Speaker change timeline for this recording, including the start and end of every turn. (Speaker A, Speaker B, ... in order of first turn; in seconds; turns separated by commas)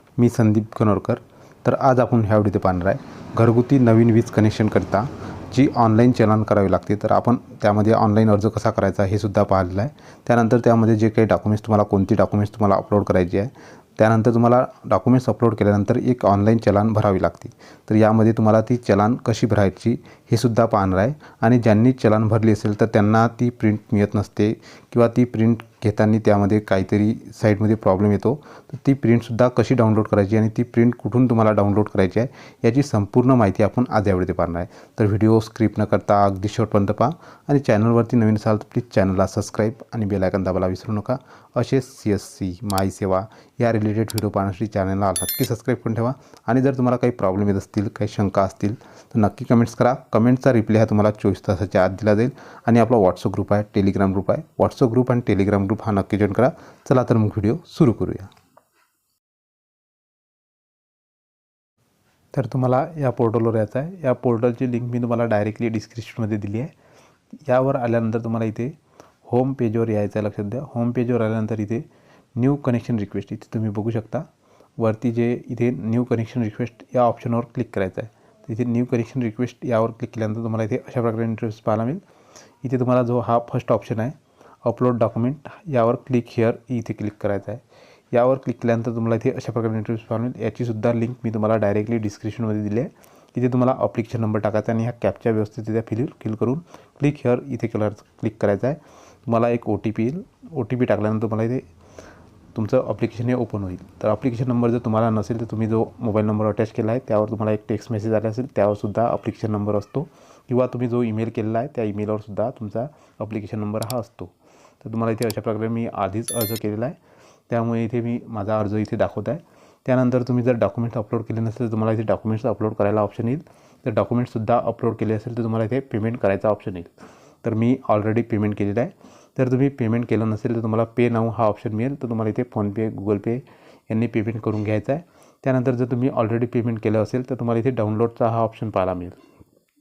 Speaker A: 0.2-58.3, Speaker A: 62.3-66.7, Speaker A: 67.5-68.7, Speaker A: 69.2-74.3, Speaker A: 74.8-82.0, Speaker A: 82.6-101.6, Speaker A: 102.5-117.0, Speaker A: 117.5-139.2